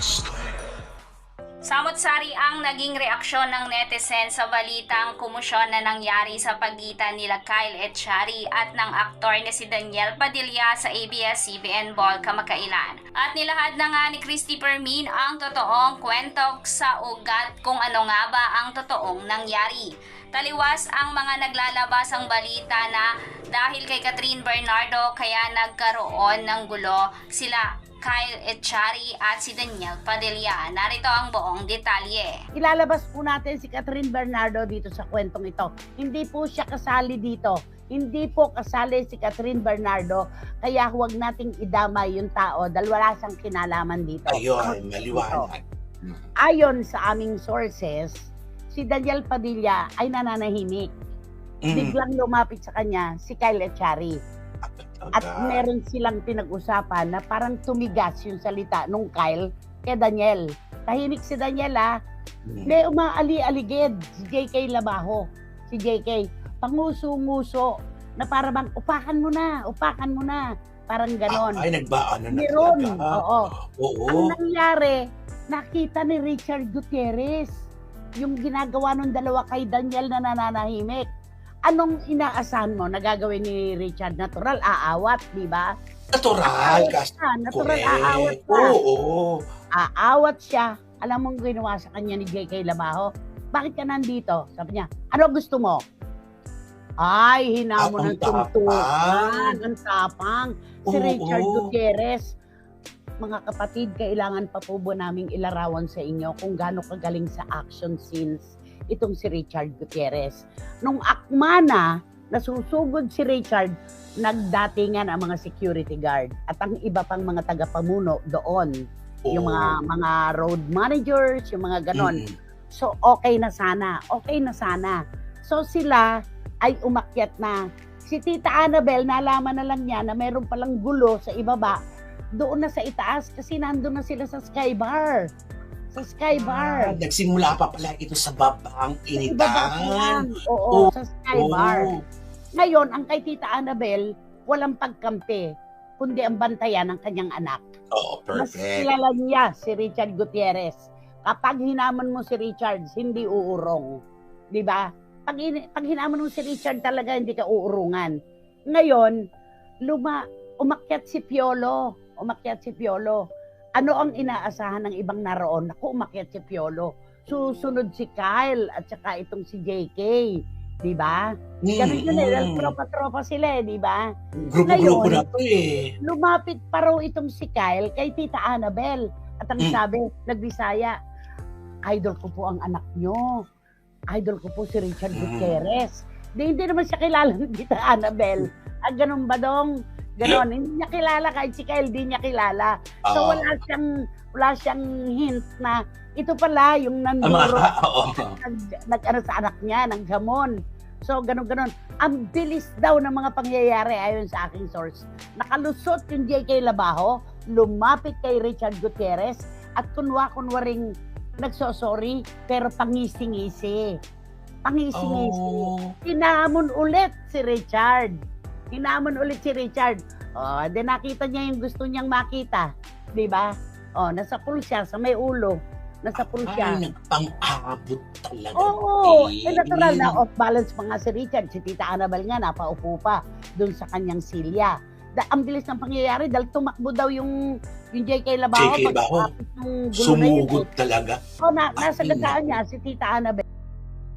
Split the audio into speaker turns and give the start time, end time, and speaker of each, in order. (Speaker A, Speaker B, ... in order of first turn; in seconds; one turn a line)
Speaker A: 1.6-32.3
Speaker B: 32.5-45.5
Speaker C: 44.3-46.2
Speaker B: 46.4-50.9
Speaker C: 51.6-52.0
Speaker B: 51.7-54.2
Speaker C: 54.6-55.6
Speaker B: 55.1-61.9
Speaker C: 62.5-62.7
Speaker B: 62.6-67.7
Speaker B: 68.2-71.6
Speaker C: 71.3-74.3
Speaker B: 72.3-73.5
Speaker B: 74.1-75.0
Speaker B: 75.5-77.6
Speaker B: 78.2-81.0
Speaker B: 81.7-85.7
Speaker C: 86.1-89.4
Speaker B: 86.4-88.7
Speaker B: 89.8-95.8
Speaker B: 97.0-102.2
Speaker C: 97.8-99.6
Speaker C: 100.9-101.7
Speaker B: 103.2-118.7
Speaker C: 119.3-119.8
Speaker B: 119.3-122.2
Speaker C: 121.9-122.3
Speaker B: 122.7-126.1
Speaker B: 126.6-131.8
Speaker B: 132.4-135.2
Speaker B: 135.9-136.9
Speaker C: 136.4-142.0
Speaker B: 139.2-141.9
Speaker B: 142.6-145.4
Speaker B: 146.0-147.6
Speaker C: 147.9-148.9
Speaker B: 148.3-153.9
Speaker B: 154.5-158.1
Speaker B: 158.7-159.2
Speaker B: 159.8-163.2
Speaker B: 163.8-174.1
Speaker C: 171.6-172.7
Speaker C: 174.3-175.9
Speaker B: 174.7-175.2
Speaker B: 176.0-180.9
Speaker B: 181.9-183.3
Speaker B: 184.1-197.7
Speaker C: 185.1-185.6
Speaker C: 193.1-193.5
Speaker C: 197.2-198.3
Speaker B: 198.4-200.5
Speaker B: 201.0-210.8
Speaker B: 211.4-213.8
Speaker B: 214.7-218.1
Speaker C: 214.9-215.9
Speaker B: 218.7-226.8
Speaker C: 226.1-230.2
Speaker B: 228.6-237.3
Speaker B: 237.9-240.7
Speaker C: 238.5-239.3
Speaker C: 239.9-241.2
Speaker B: 241.4-243.4
Speaker C: 241.8-242.6